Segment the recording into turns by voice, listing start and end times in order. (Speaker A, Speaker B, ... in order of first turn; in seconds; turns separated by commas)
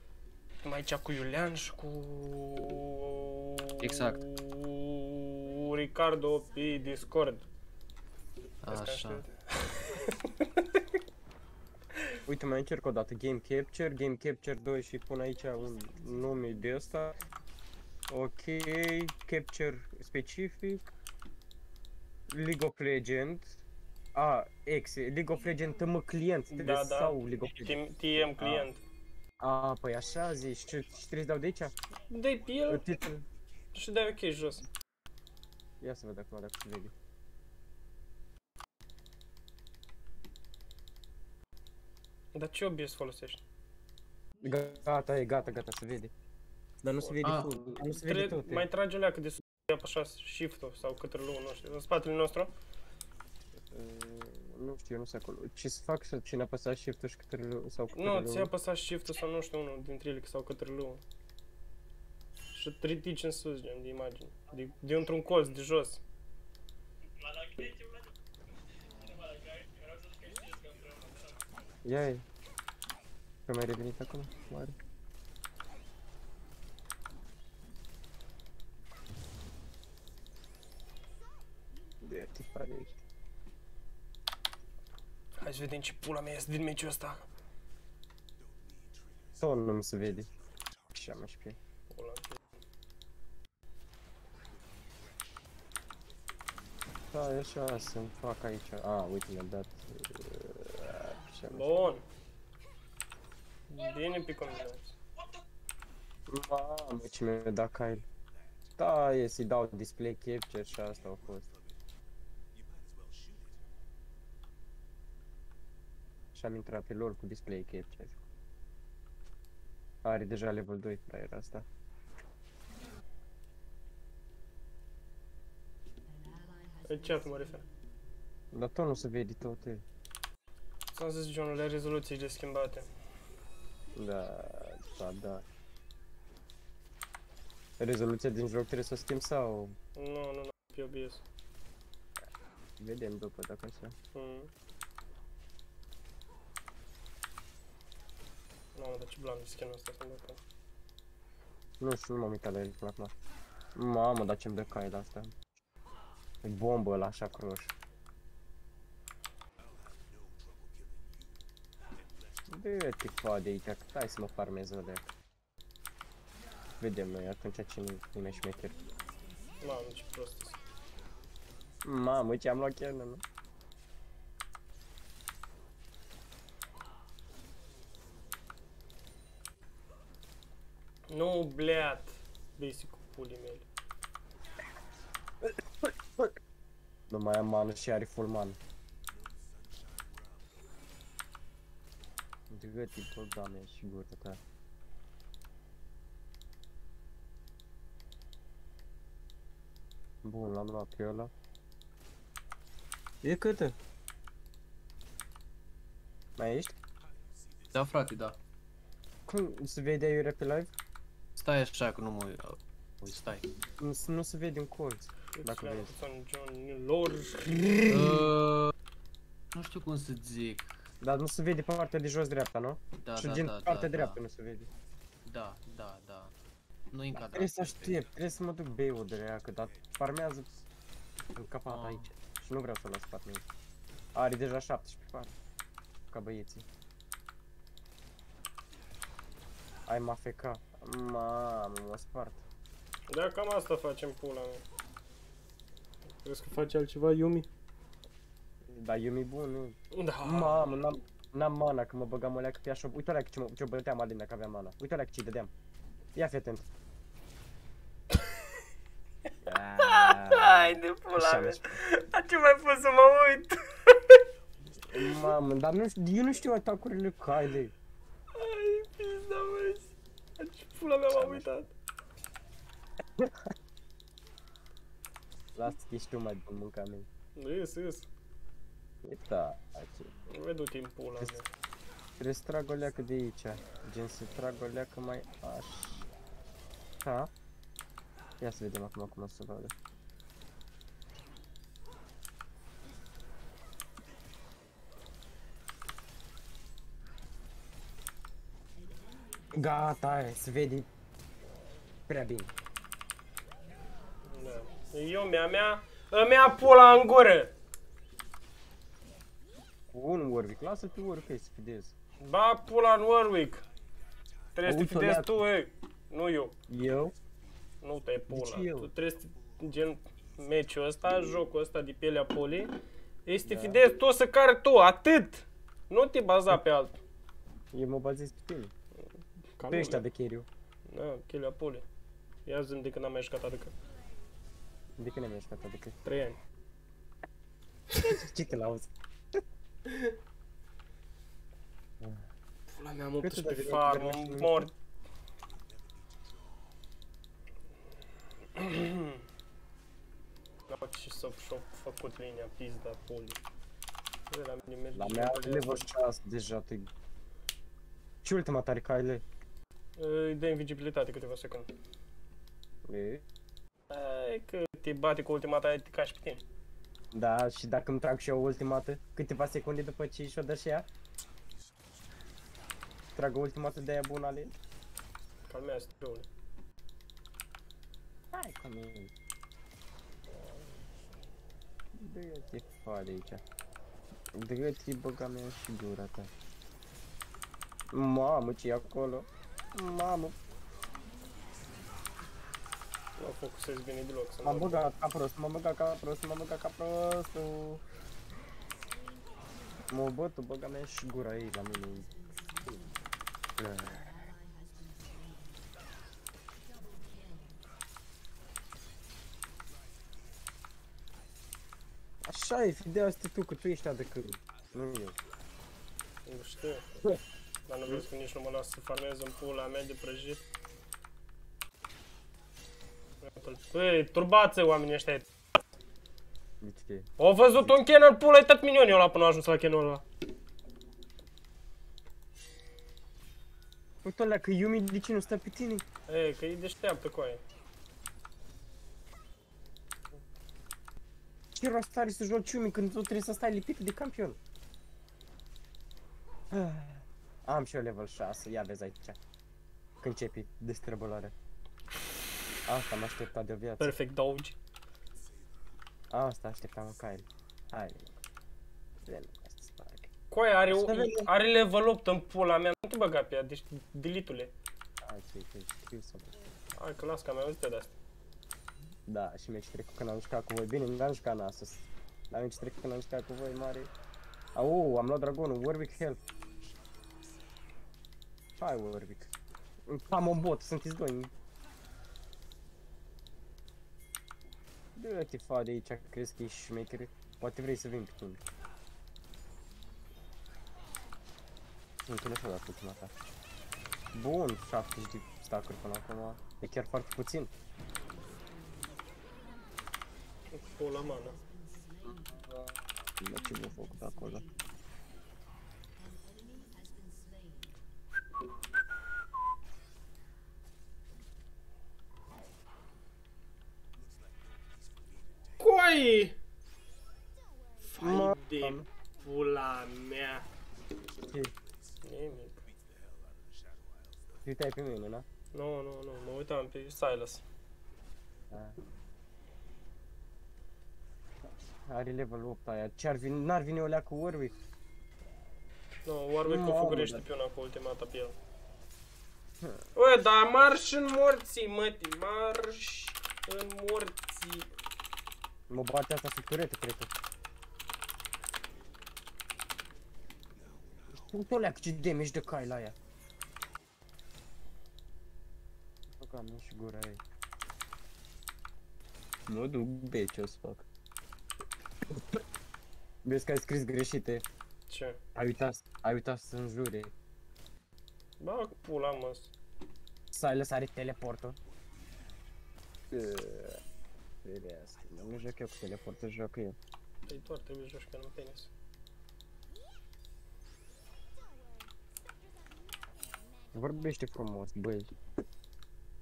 Speaker A: 0.6-7.4, Speaker B: 3.8-4.2, Speaker B: 8.6-9.2, Speaker A: 8.7-10.8, Speaker C: 12.3-17.2, Speaker C: 18.1-20.9, Speaker C: 22.3-23.6, Speaker C: 24.1-27.8, Speaker A: 26.5-28.8, Speaker C: 28.4-28.7, Speaker C: 29.4-31.8, Speaker A: 32.1-32.9, Speaker C: 32.6-33.3, Speaker A: 33.7-34.6, Speaker C: 35.8-36.9, Speaker A: 42.3-43.4, Speaker C: 44.4-46.1, Speaker C: 46.8-48.6, Speaker B: 47.2-47.8, Speaker A: 47.9-52.5, Speaker C: 53.6-58.5, Speaker A: 57.9-61.0, Speaker A: 62.5-66.0, Speaker C: 71.8-72.2, Speaker C: 73.5-74.8, Speaker C: 82.0-83.0, Speaker A: 85.4-87.3, Speaker C: 89.4-90.3, Speaker C: 90.9-91.6, Speaker A: 91.9-92.4, Speaker C: 97.1-101.7, Speaker A: 101.5-102.0, Speaker A: 103.7-105.0, Speaker C: 106.3-108.0, Speaker C: 108.8-111.5, Speaker C: 116.3-118.2, Speaker C: 120.0-121.7, Speaker A: 126.8-127.6, Speaker C: 128.5-129.8, Speaker A: 130.9-132.9, Speaker C: 133.9-135.4, Speaker C: 137.8-139.8, Speaker A: 139.9-141.2, Speaker C: 142.8-143.9, Speaker A: 144.1-144.5, Speaker A: 148.7-150.4, Speaker C: 151.8-153.1, Speaker C: 153.8-155.3, Speaker C: 156.4-157.7, Speaker C: 162.5-165.1, Speaker C: 166.8-168.8, Speaker A: 169.6-170.6, Speaker C: 171.8-173.2, Speaker A: 181.1-183.6, Speaker C: 185.4-186.3, Speaker C: 187.1-188.6, Speaker C: 192.5-194.4, Speaker C: 200.2-201.3, Speaker C: 203.2-203.8, Speaker C: 206.4-206.8, Speaker B: 207.7-208.4, Speaker C: 209.3-210.7, Speaker B: 211.4-213.5, Speaker C: 213.8-215.9, Speaker A: 215.3-217.8, Speaker C: 217.4-218.3, Speaker B: 217.9-218.7, Speaker B: 219.5-220.9, Speaker C: 221.0-224.7, Speaker B: 223.0-224.2, Speaker B: 225.2-226.3, Speaker B: 226.9-228.0, Speaker C: 227.1-230.5, Speaker C: 231.3-233.5, Speaker B: 231.7-232.1, Speaker C: 234.1-235.3, Speaker C: 236.1-236.7, Speaker C: 239.9-242.4, Speaker A: 243.1-244.6, Speaker A: 246.2-247.5, Speaker C: 248.7-255.5, Speaker A: 249.9-250.6, Speaker C: 256.1-256.6, Speaker C: 259.4-261.6, Speaker A: 259.8-264.2, Speaker C: 264.9-267.7, Speaker A: 268.3-271.7, Speaker C: 271.1-271.5, Speaker C: 273.2-273.5, Speaker C: 275.5-277.1, Speaker A: 277.4-278.1, Speaker C: 279.0-280.1, Speaker A: 280.3-281.4, Speaker C: 282.2-286.1, Speaker C: 287.0-287.3, Speaker C: 288.4-289.7, Speaker C: 299.5-300.9, Speaker C: 302.1-302.5, Speaker A: 304.2-307.5, Speaker C: 309.9-311.9, Speaker A: 312.2-313.6, Speaker A: 314.5-316.5, Speaker C: 314.6-315.4, Speaker C: 316.7-317.1, Speaker A: 317.8-322.7, Speaker C: 318.3-318.9, Speaker A: 323.2-327.0, Speaker C: 323.4-323.8, Speaker C: 327.7-328.7, Speaker A: 329.6-330.0, Speaker C: 329.7-330.5, Speaker A: 330.9-331.8, Speaker A: 332.4-333.7, Speaker C: 335.0-335.9, Speaker A: 336.0-336.4, Speaker C: 338.0-339.4, Speaker A: 339.9-340.1, Speaker C: 342.0-342.3, Speaker A: 342.7-344.7, Speaker C: 343.2-344.7, Speaker A: 348.5-349.2, Speaker A: 350.7-353.4, Speaker A: 354.3-355.9, Speaker C: 354.9-356.9, Speaker C: 358.2-359.2, Speaker A: 359.9-361.7, Speaker C: 362.9-363.2, Speaker A: 363.9-366.4, Speaker C: 367.1-370.9, Speaker C: 373.1-374.6, Speaker A: 375.5-376.3, Speaker C: 378.3-379.1, Speaker C: 381.9-383.4, Speaker C: 384.3-386.3, Speaker C: 387.9-390.4, Speaker A: 393.2-394.9, Speaker C: 394.4-397.8, Speaker C: 399.9-402.9, Speaker C: 403.6-404.2, Speaker C: 412.2-415.1, Speaker A: 416.2-417.0, Speaker A: 417.7-420.4, Speaker A: 423.2-425.2, Speaker C: 426.6-427.7, Speaker A: 427.2-430.0, Speaker C: 434.0-435.8, Speaker A: 436.1-437.4, Speaker C: 441.5-444.4, Speaker C: 446.5-449.2, Speaker C: 450.0-451.3, Speaker C: 452.6-453.9, Speaker A: 453.8-454.6, Speaker C: 456.1-458.2, Speaker C: 459.0-460.1, Speaker A: 460.3-464.5, Speaker C: 460.7-461.3, Speaker C: 465.0-466.3, Speaker A: 466.8-467.9, Speaker C: 469.1-473.9, Speaker C: 474.5-476.2, Speaker C: 478.6-479.3, Speaker C: 479.8-481.3, Speaker C: 484.9-488.4, Speaker C: 492.0-493.1, Speaker C: 494.1-497.5, Speaker A: 500.5-501.4, Speaker C: 502.0-504.5, Speaker A: 515.6-516.4, Speaker A: 517.8-520.5, Speaker C: 518.0-518.9, Speaker C: 521.2-521.5, Speaker A: 522.0-522.6, Speaker C: 524.4-525.2, Speaker A: 525.5-527.4, Speaker C: 528.5-528.8, Speaker C: 531.9-534.5, Speaker A: 536.0-538.3, Speaker C: 536.4-537.2, Speaker A: 539.9-544.7, Speaker C: 545.7-547.1, Speaker C: 551.1-552.9, Speaker C: 556.1-557.2, Speaker C: 559.5-560.9, Speaker C: 562.1-562.4, Speaker C: 563.2-564.4, Speaker A: 564.9-565.2, Speaker C: 565.3-567.1, Speaker A: 568.4-569.5, Speaker C: 570.3-571.6, Speaker C: 573.1-573.8, Speaker C: 574.4-576.8, Speaker A: 577.3-578.7, Speaker C: 583.7-585.1